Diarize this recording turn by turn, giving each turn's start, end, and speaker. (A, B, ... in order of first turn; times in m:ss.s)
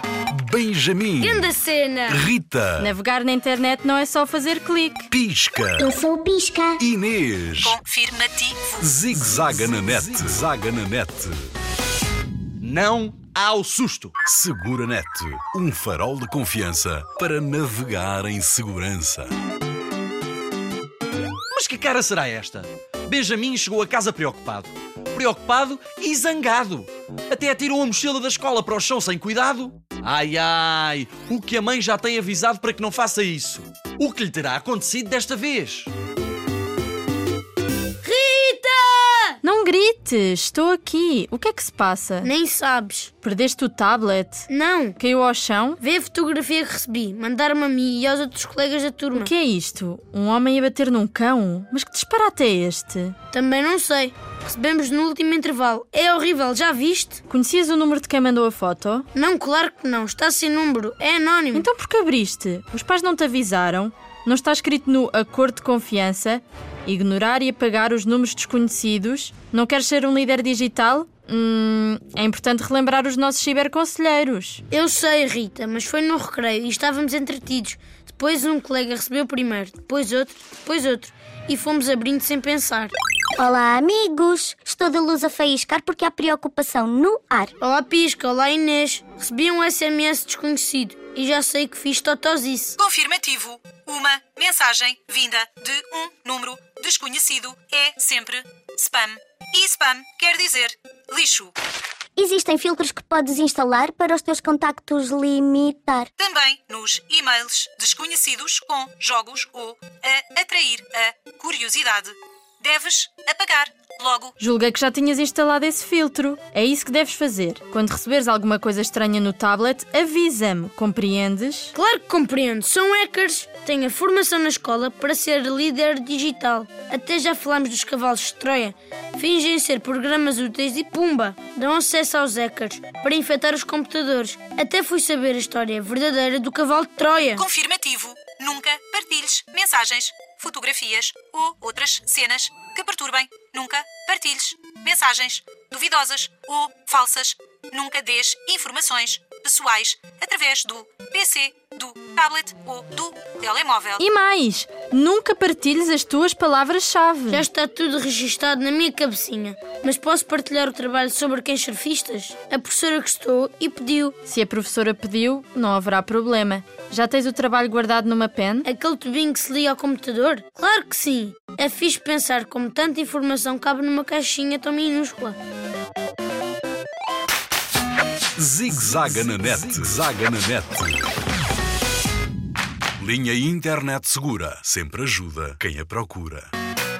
0:00.3-0:01.5 A
0:01.2-0:02.2 B
0:02.1-0:02.9 A
0:02.8-0:05.1 C
0:05.1-0:06.0 A
0:05.8-0:06.8 D
0:06.8-0:07.8 A
0:07.6-0:08.7 E
0:08.8-0:11.4 A
0:12.6-0:14.1 F
0:14.2-0:19.3 A
0:21.5-0:35.9 F
0:38.0-0:39.4 B
0:39.4-0:42.3 C
0:42.2-0:43.1 B
0:43.2-0:45.8 C
0:44.5-0:45.0 B
0:45.8-0:49.3 B
0:49.1-0:53.1 C
0:53.3-0:57.2 B
0:57.3-0:59.1 C
0:59.1-1:01.7 B
1:01.5-1:14.6 C
1:14.7-1:22.9 B
1:23.4-1:27.5 D
1:27.6-1:32.8 B
1:32.8-1:41.5 E
1:42.2-1:46.1 D
1:46.2-1:54.3 E
1:54.4-2:01.7 C
2:01.7-2:17.4 B
2:17.3-2:34.0 E
2:34.0-2:37.4 C
2:37.3-2:44.1 B
2:44.2-2:48.7 C
2:48.6-2:55.4 B
2:58.4-3:01.1 A
3:03.0-3:06.5 A